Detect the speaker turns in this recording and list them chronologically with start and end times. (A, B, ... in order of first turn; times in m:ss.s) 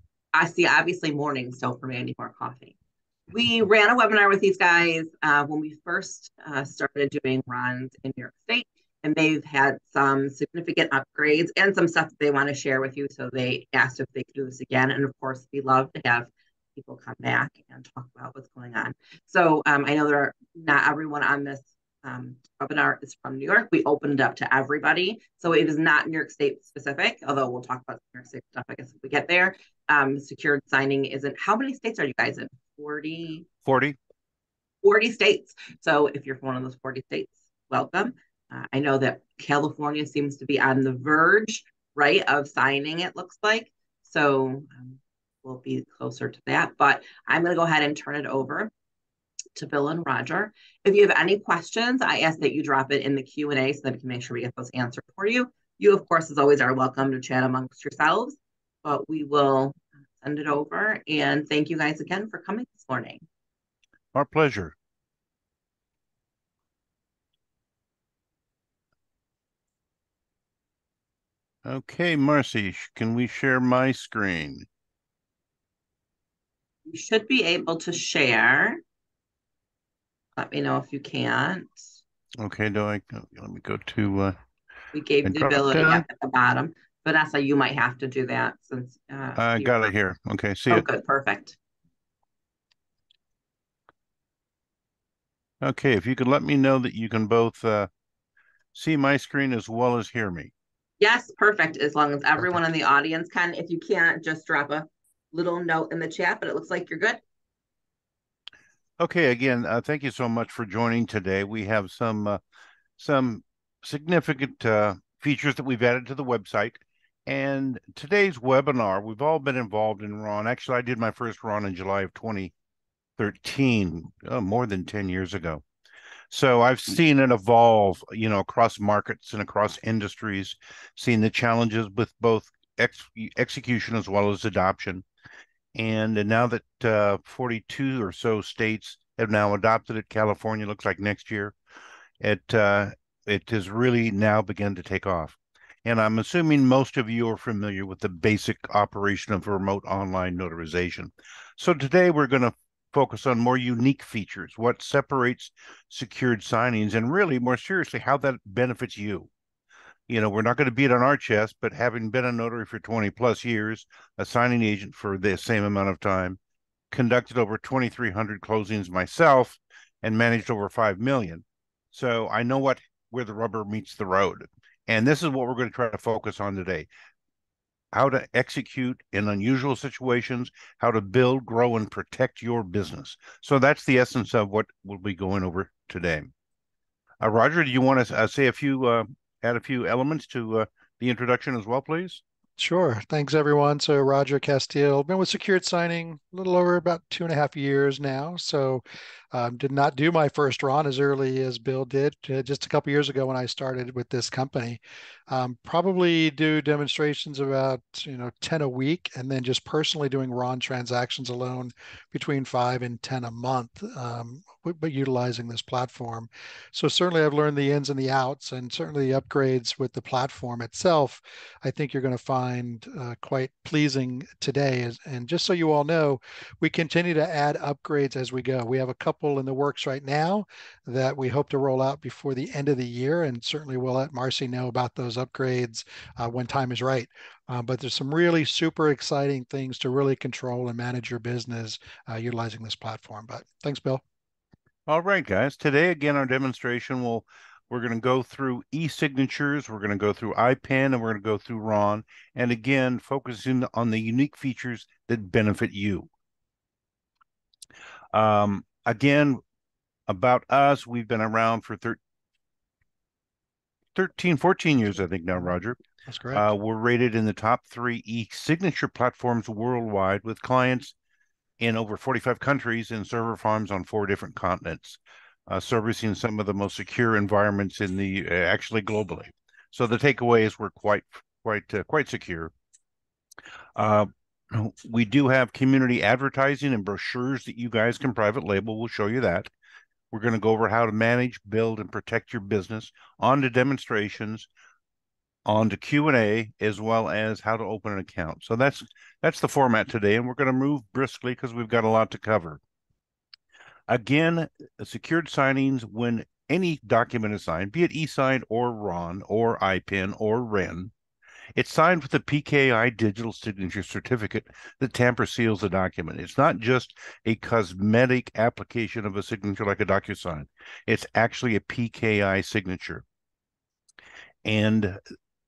0:00.3-0:02.8 A
0:03.3-0:33.5 A
0:33.6-0:34.0 B
0:34.8-0:48.7 A
0:49.5-1:03.2 A
1:04.1-1:04.7 B
1:11.6-1:14.7 B
1:16.9-1:18.8 A
1:20.4-1:21.8 A
1:22.4-1:24.4 B
1:24.9-1:29.8 A
1:25.2-1:26.0 B
1:29.4-1:30.8 B
1:30.7-1:31.6 A
1:35.6-1:37.9 B
1:38.7-1:40.5 B
1:41.0-1:47.2 A
1:49.0-1:52.4 B
1:53.0-2:02.5 B
2:03.2-2:05.6 B
2:06.3-2:15.0 B
2:15.7-2:21.5 B
2:22.2-2:39.3 B
2:40.1-2:46.4 B
2:46.9-2:56.9 B
2:57.9-3:06.3 B
3:07.2-3:12.2 B
3:12.6-4:04.0 C
4:04.9-4:16.1 B
4:18.1-4:19.4 B
4:20.1-4:22.0 B
4:23.9-4:25.8 B
4:26.1-4:26.4 C
4:26.3-4:30.9 B
4:31.6-4:42.5 B
4:43.8-4:49.5 B
4:50.1-4:54.5 B
4:55.4-5:02.6 B
5:03.9-5:10.9 B
5:11.6-5:23.0 B
5:24.4-5:25.0 B